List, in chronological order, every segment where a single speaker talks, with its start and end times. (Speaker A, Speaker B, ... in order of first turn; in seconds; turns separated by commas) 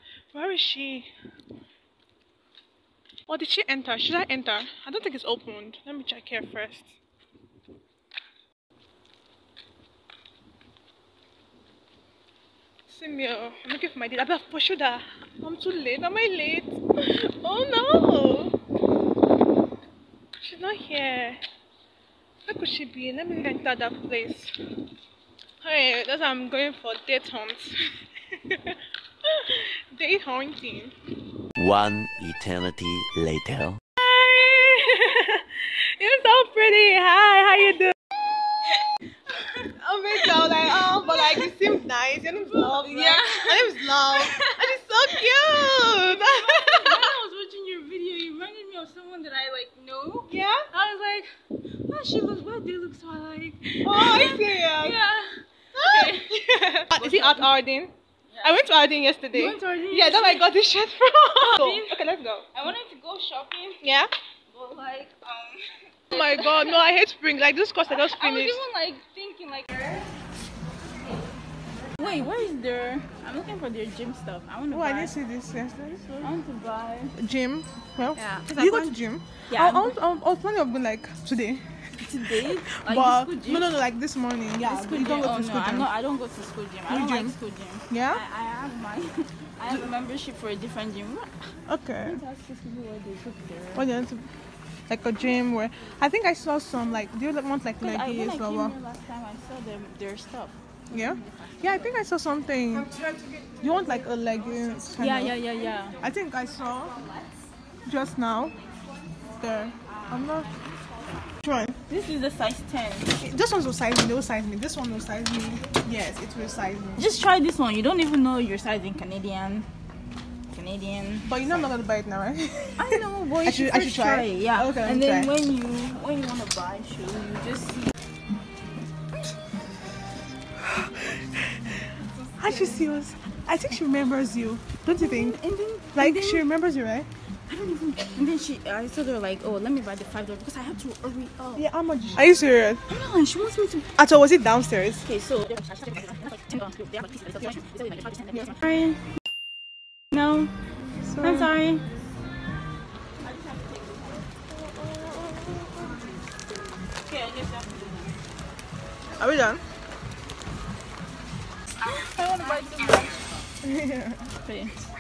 Speaker A: 0.3-1.1, Speaker A: 3.3-7.0, Speaker A: 12.9-18.5, Speaker A: 20.4-21.4, Speaker A: 22.5-24.5, Speaker A: 25.6-27.7, Speaker A: 28.3-30.9, Speaker B: 31.6-33.8, Speaker A: 34.0-38.0, Speaker A: 39.8-47.1, Speaker C: 41.1-41.5, Speaker C: 42.5-44.5, Speaker C: 45.4-51.3, Speaker A: 50.3-50.7, Speaker C: 51.9-57.5, Speaker A: 53.8-55.0, Speaker A: 55.8-56.3, Speaker A: 56.9-62.5, Speaker C: 58.3-58.6, Speaker C: 59.3-60.5, Speaker C: 61.4-62.0, Speaker C: 62.5-63.8, Speaker A: 63.8-64.1, Speaker C: 64.5-66.8, Speaker A: 66.1-68.6, Speaker C: 67.9-70.1, Speaker C: 72.0-75.1, Speaker A: 74.7-76.2, Speaker C: 76.1-77.1, Speaker A: 77.2-81.7, Speaker C: 78.2-79.0, Speaker C: 79.5-80.0, Speaker C: 82.0-83.7, Speaker A: 82.4-85.9, Speaker C: 84.6-91.5, Speaker A: 86.9-87.3, Speaker A: 87.9-88.2, Speaker A: 91.7-92.2, Speaker C: 92.0-93.9, Speaker A: 93.7-94.3, Speaker A: 94.9-98.8, Speaker C: 97.8-102.0, Speaker A: 100.9-102.9, Speaker A: 103.6-105.4, Speaker C: 105.0-106.0, Speaker A: 106.0-107.0, Speaker A: 107.9-108.6, Speaker A: 109.4-110.5, Speaker C: 110.0-110.6, Speaker A: 111.4-111.8, Speaker C: 111.9-113.2, Speaker A: 113.2-117.0, Speaker C: 117.0-119.7, Speaker C: 120.5-121.4, Speaker A: 121.2-125.3, Speaker C: 122.8-127.9, Speaker A: 130.6-131.8, Speaker C: 132.2-132.8, Speaker A: 132.4-135.4, Speaker C: 135.0-136.4, Speaker A: 135.9-137.1, Speaker C: 137.5-141.7, Speaker A: 141.6-142.8, Speaker C: 142.9-143.9, Speaker A: 144.0-145.0, Speaker C: 145.1-149.0, Speaker C: 150.1-150.5, Speaker A: 150.8-151.5, Speaker C: 151.2-151.9, Speaker C: 153.2-154.2, Speaker A: 154.5-156.0, Speaker C: 157.1-158.2, Speaker A: 159.2-159.6, Speaker C: 161.8-163.4, Speaker A: 163.6-164.3, Speaker C: 164.4-164.8